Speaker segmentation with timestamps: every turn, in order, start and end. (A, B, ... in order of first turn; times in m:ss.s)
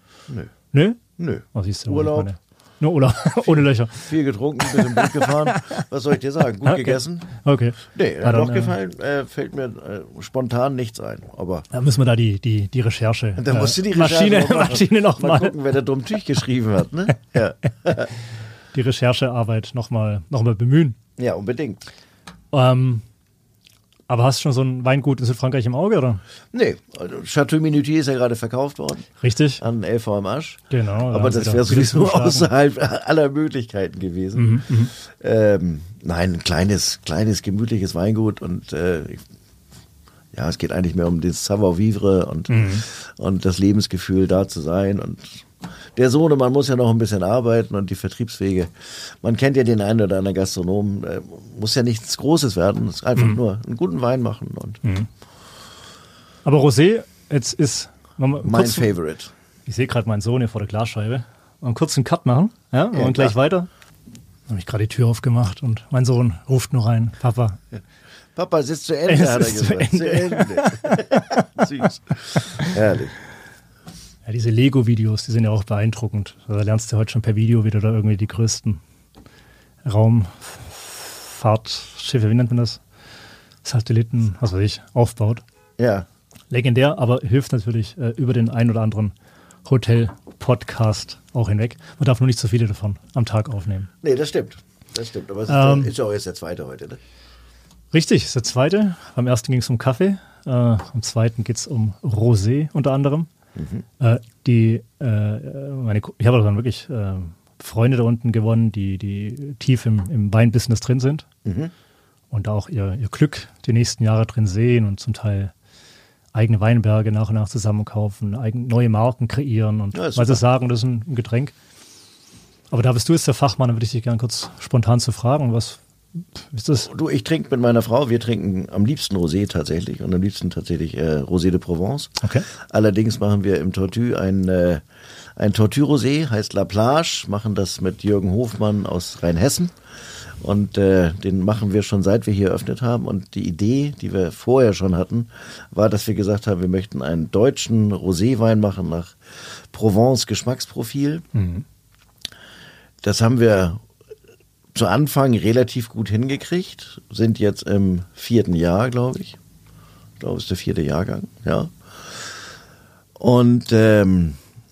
0:00.7-0:01.0 A
0:01.2-0:02.3 B
0:01.5-0:05.8 A
0:04.0-0:07.3 B
0:06.6-0:08.8 A
0:07.8-0:11.6 B
0:11.7-0:15.6 A
0:13.4-0:18.1 B
0:18.7-0:21.0 A
0:21.2-0:21.8 B
0:22.5-0:23.0 A
0:24.1-0:26.2 A
0:26.5-0:29.1 B
0:29.2-0:29.6 A
0:29.6-0:39.2 B
0:30.7-0:32.5 A
0:34.3-0:34.9 A
0:40.3-0:54.8 B
0:42.5-0:42.8 A
0:56.4-0:58.9 A
0:58.4-0:59.3 B
0:59.7-1:03.7 A
1:02.9-1:03.4 B
1:04.5-1:07.6 A
1:08.3-1:13.2 B
1:09.1-1:11.6 A
1:12.4-1:12.7 A
1:14.2-1:18.8 A
1:19.8-1:22.8 A
1:23.6-1:25.4 A
1:25.8-1:26.1 B
1:26.5-1:29.1 A
1:29.6-1:33.9 A
1:34.0-1:37.0 B
1:35.5-1:35.9 A
1:37.9-1:43.3 A
1:43.6-1:43.8 B
1:44.0-1:51.3 A
1:51.4-1:51.7 B
1:52.3-1:55.5 A
1:56.3-2:01.5 A
1:59.9-2:00.4 B
2:02.7-2:05.8 A
2:06.4-2:06.9 A
2:06.8-2:14.8 B
2:12.2-2:12.4 A
2:15.4-2:19.7 B
2:20.4-2:31.2 B
2:31.3-2:31.6 A
2:33.0-2:33.8 B
2:34.7-2:39.4 B
2:40.2-2:42.4 B
2:43.2-2:44.4 B